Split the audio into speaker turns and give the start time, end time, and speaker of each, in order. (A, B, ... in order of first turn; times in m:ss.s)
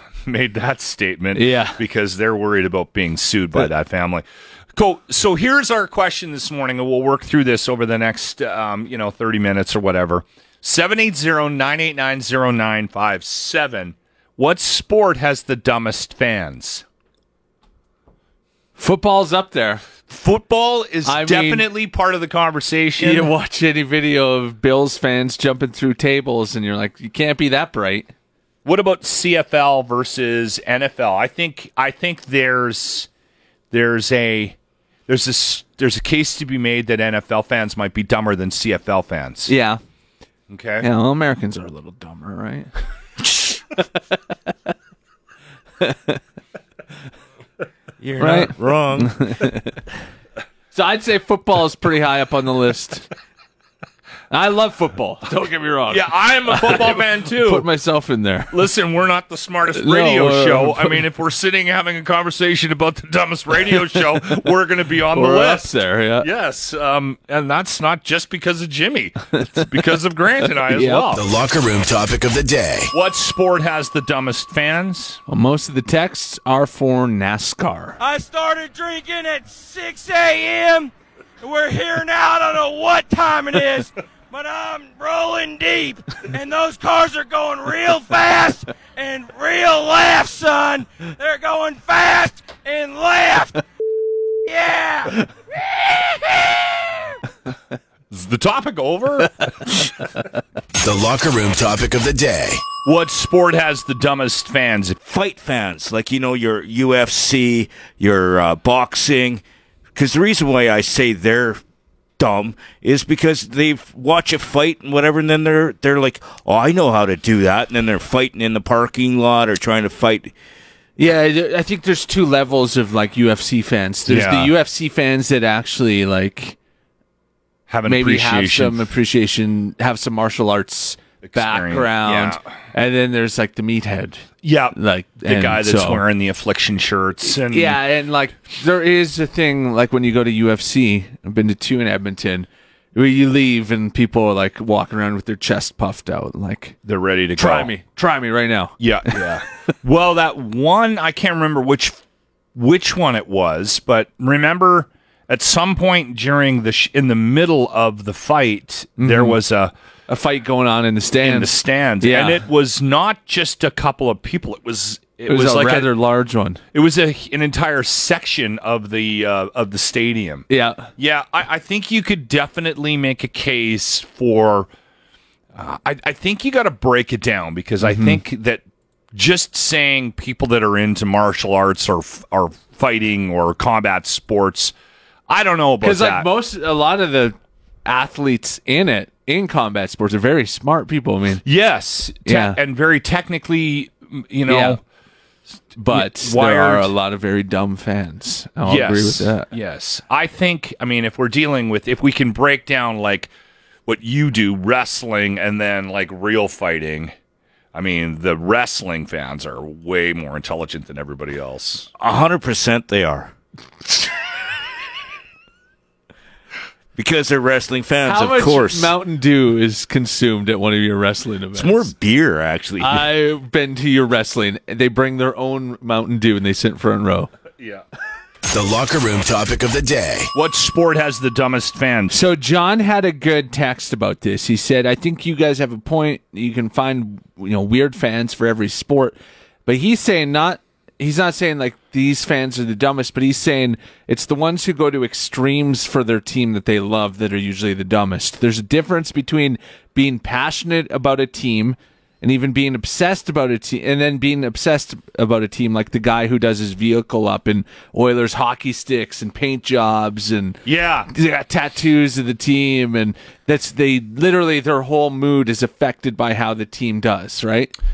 0:00.2-0:16.8 A
0:01.3-0:01.8 B
0:18.8-0:19.8 B
0:20.0-0:23.3 A
0:21.0-0:21.7 B
0:23.0-0:28.1 B
0:28.6-0:33.1 A
0:33.7-0:39.5 A
0:39.5-0:39.8 B
0:40.5-0:40.8 A
0:40.8-0:42.7 B
0:45.8-0:46.2 B
0:48.0-0:49.2 C
0:48.2-0:49.8 B
0:50.7-0:53.0 B
0:54.3-0:58.7 B
0:55.9-0:57.6 A
0:58.5-1:05.7 A
0:59.7-1:01.0 B
1:05.1-1:06.3 B
1:06.2-1:11.3 A
1:10.4-1:11.1 B
1:11.1-1:12.9 D
1:12.9-1:15.2 A
1:15.3-1:18.0 B
1:18.0-1:33.6 E
1:34.4-1:35.2 E
1:38.1-1:39.4 A
1:40.8-1:42.6 D
1:42.8-1:45.0 A
1:45.0-1:49.4 C
1:49.9-1:51.6 C
1:52.2-2:00.3 C
2:01.0-2:06.6 B
2:04.1-2:04.5 A
2:07.7-2:08.8 A
2:07.9-2:16.0 B
2:11.2-2:12.4 A
2:14.4-2:17.8 A
2:17.2-2:26.8 B
2:26.8-2:27.7 A
2:27.4-2:29.3 B
2:28.8-2:32.0 A
2:32.5-2:39.7 A
2:39.0-2:39.4 B
2:40.1-2:42.4 B
2:41.2-2:45.9 A
2:45.3-2:46.6 B
2:46.7-2:50.4 A
2:50.5-2:50.9 B
2:51.0-2:54.7 A
2:55.5-3:04.7 A
2:57.8-2:58.2 B
3:05.3-3:06.3 A
3:05.8-3:11.4 B
3:11.4-3:14.8 A
3:12.2-3:12.6 B
3:14.5-3:14.8 B
3:15.8-3:19.5 B
3:15.9-3:16.9 A
3:18.6-3:23.3 A
3:23.9-3:27.1 A
3:27.7-3:31.9 A
3:32.0-3:33.3 C
3:37.0-3:38.9 C
3:38.0-3:41.9 B
3:41.5-3:43.1 C
3:42.8-3:47.3 B
3:47.6-3:47.8 A
3:48.5-3:50.3 D
3:50.3-3:52.2 A
3:52.1-4:27.7 B
4:20.6-4:21.1 A